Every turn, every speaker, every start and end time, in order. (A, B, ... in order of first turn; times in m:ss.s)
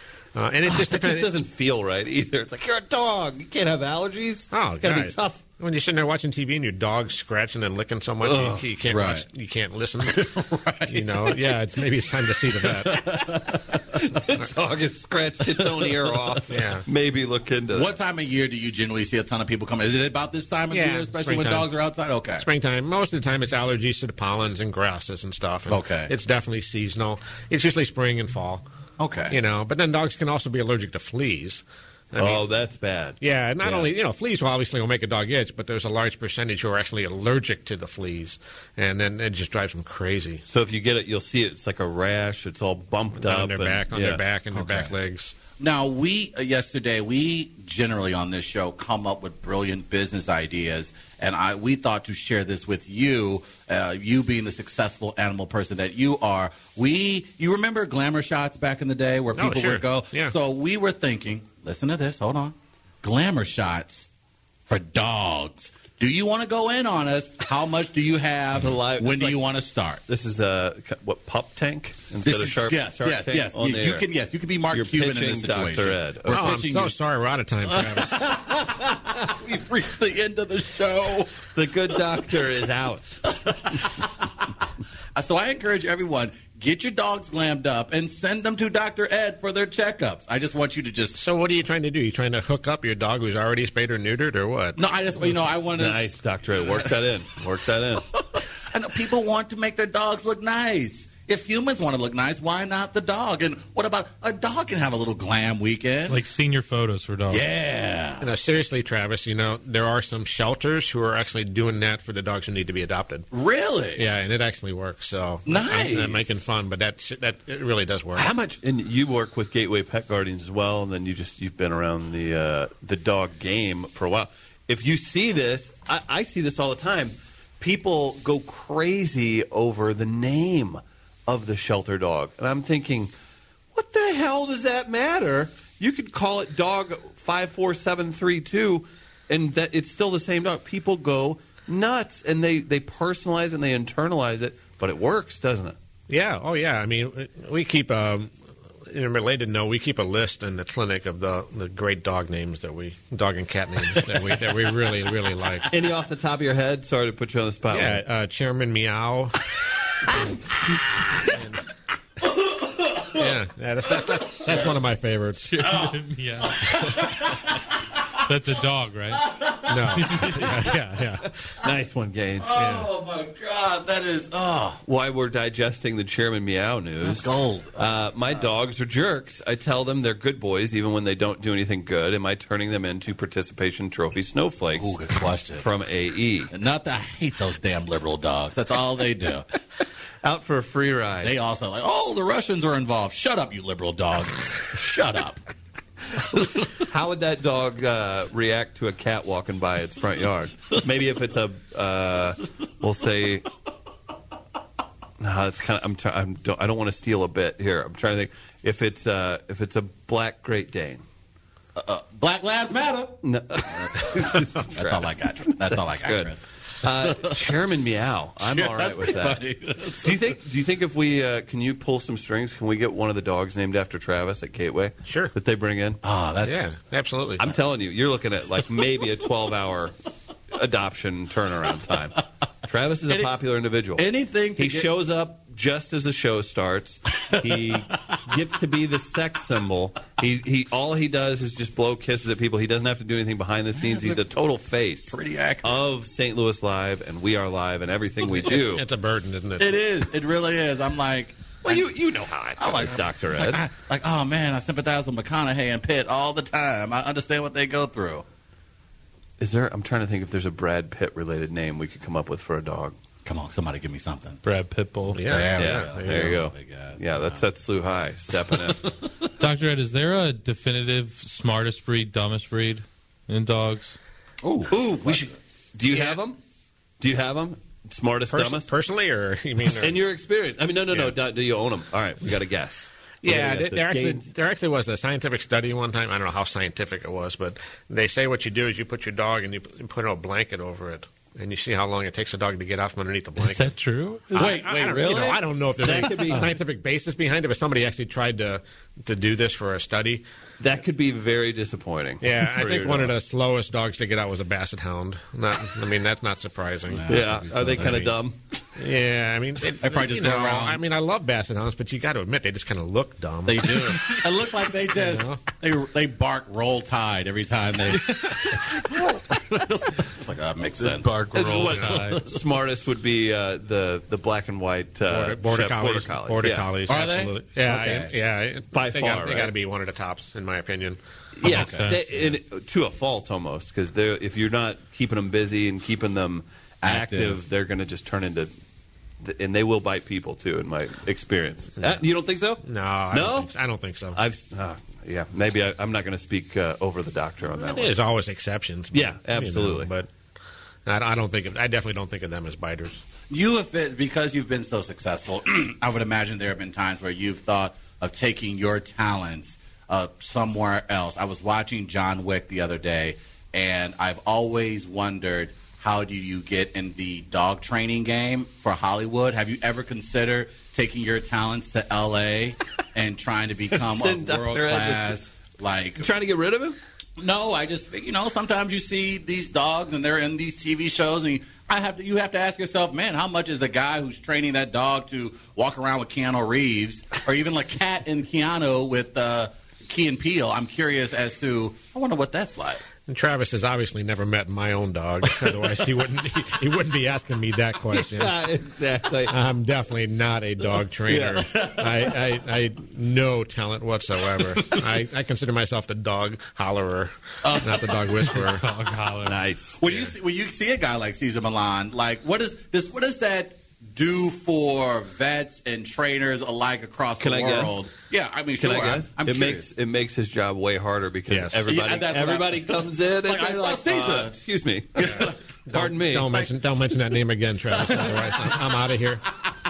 0:00.4-0:01.3 A
0:00.7-0:05.4 B
0:04.5-0:10.3 A
0:08.2-0:08.6 B
0:08.9-0:09.3 C
0:10.0-0:11.4 C
0:10.9-0:13.0 A
0:12.7-0:13.6 C
0:13.2-0:17.9 B
0:15.6-0:16.0 C
0:16.5-0:16.8 A
0:17.7-0:22.5 C
0:20.7-0:21.7 A
0:22.4-0:28.6 A
0:25.7-0:26.1 C
0:29.0-0:29.4 C
0:29.3-0:32.5 A
0:32.2-0:33.9 B
0:33.2-0:40.4 A
0:40.5-0:44.2 B
0:43.2-0:45.4 A
0:44.5-0:44.9 C
0:45.6-1:04.1 C
0:59.4-1:00.3 A
1:04.7-1:10.0 C
1:08.6-1:09.4 B
1:10.1-1:14.1 B
1:12.2-1:17.0 C
1:14.7-1:16.6 B
1:16.3-1:18.4 A
1:17.7-1:21.4 C
1:18.5-1:19.3 B
1:21.6-1:23.2 B
1:23.3-1:24.4 C
1:25.2-1:31.2 C
1:31.2-1:34.8 A
1:34.8-1:36.0 C
1:35.8-1:38.1 B
1:38.7-1:46.2 C
1:46.1-1:47.4 D
1:47.3-1:48.3 C
1:48.2-1:53.3 A
1:53.3-1:54.0 C
1:54.0-1:58.3 A
1:55.5-1:56.3 C
1:58.1-2:13.1 B
2:13.8-2:25.8 B
2:26.1-2:28.3 A
2:28.9-2:35.7 A
2:35.7-2:38.0 B
2:37.7-2:39.5 A
2:41.2-2:41.6 A
2:42.8-2:43.2 C
2:43.1-2:45.7 A
2:45.4-2:49.3 D
2:45.6-2:47.5 C
2:49.2-2:50.6 C
2:49.7-2:51.3 A
2:50.0-2:50.5 D
2:51.6-2:52.5 B
2:52.4-2:54.8 C
2:52.6-2:52.9 A
2:54.8-3:04.9 B
2:57.0-2:58.0 C
3:04.8-3:05.7 C
3:05.6-3:06.5 B
3:06.5-3:09.5 C
3:10.2-3:11.4 B
3:11.2-3:15.4 C
3:16.7-3:23.5 B
3:25.2-3:31.0 B
3:31.8-3:37.4 C
3:33.2-3:39.4 B
3:38.4-3:40.2 C
3:40.0-3:46.0 B
3:45.0-3:45.3 A
3:46.0-3:46.7 C
3:46.4-3:47.5 A
3:47.4-3:49.9 B
3:50.5-4:08.9 B
3:53.1-3:53.3 C
3:54.0-3:54.9 C
4:03.8-4:04.3 C
4:05.1-4:05.9 C
4:08.2-4:09.8 A
4:09.6-4:11.9 C
4:11.6-4:13.6 B
4:12.6-4:18.2 C
4:19.4-4:23.0 B
4:23.2-4:24.4 C
4:24.4-4:25.2 D
4:25.1-4:26.4 A
4:25.3-4:27.4 C
4:25.5-4:28.9 B
4:28.5-4:29.3 C
4:29.4-4:34.0 D
4:34.4-4:35.3 C
4:34.7-4:36.4 B
4:35.9-4:36.2 A
4:37.0-4:38.7 B
4:38.3-4:40.0 A
4:39.7-4:44.3 B
4:43.2-4:53.7 A
4:53.4-4:54.5 D
4:54.3-5:00.2 A
4:54.4-4:55.4 C
4:54.7-4:56.5 B
5:00.6-5:03.2 B
5:02.2-5:08.1 A
5:06.9-5:08.1 C
5:07.0-5:08.4 B
5:08.8-5:14.2 A
5:09.6-5:10.8 C
5:13.5-5:21.2 C
5:14.9-5:15.4 A
5:20.8-5:22.2 D
5:21.3-5:26.7 B
5:21.8-5:22.0 A
5:25.1-5:31.0 A
5:26.9-5:28.1 C
5:28.7-5:29.5 B
5:31.4-5:38.5 B
5:31.4-5:32.0 C
5:31.4-5:32.4 D
5:36.8-5:37.4 C
5:39.2-5:43.5 B
5:42.6-5:44.2 A
5:44.1-5:47.9 B
5:47.6-5:50.1 A
5:48.9-5:49.9 B
5:50.9-5:53.0 A
5:53.3-6:16.1 C
6:13.8-6:15.2 B
6:16.0-6:16.8 B
6:17.2-6:32.8 C
6:33.1-6:38.4 A
6:37.9-6:39.4 B
6:39.3-6:48.6 A
6:41.1-6:41.4 B
6:41.4-6:42.2 C
6:44.4-6:44.9 C
6:47.4-6:48.1 C
6:48.3-6:49.4 D
6:49.2-6:49.8 B
6:49.8-6:59.7 C
6:57.2-6:57.9 B
6:58.6-7:06.4 B
7:01.3-7:01.6 A
7:01.7-7:04.4 C
7:05.0-7:05.4 C
7:05.0-7:09.3 A
7:06.2-7:06.5 C
7:07.8-7:08.6 C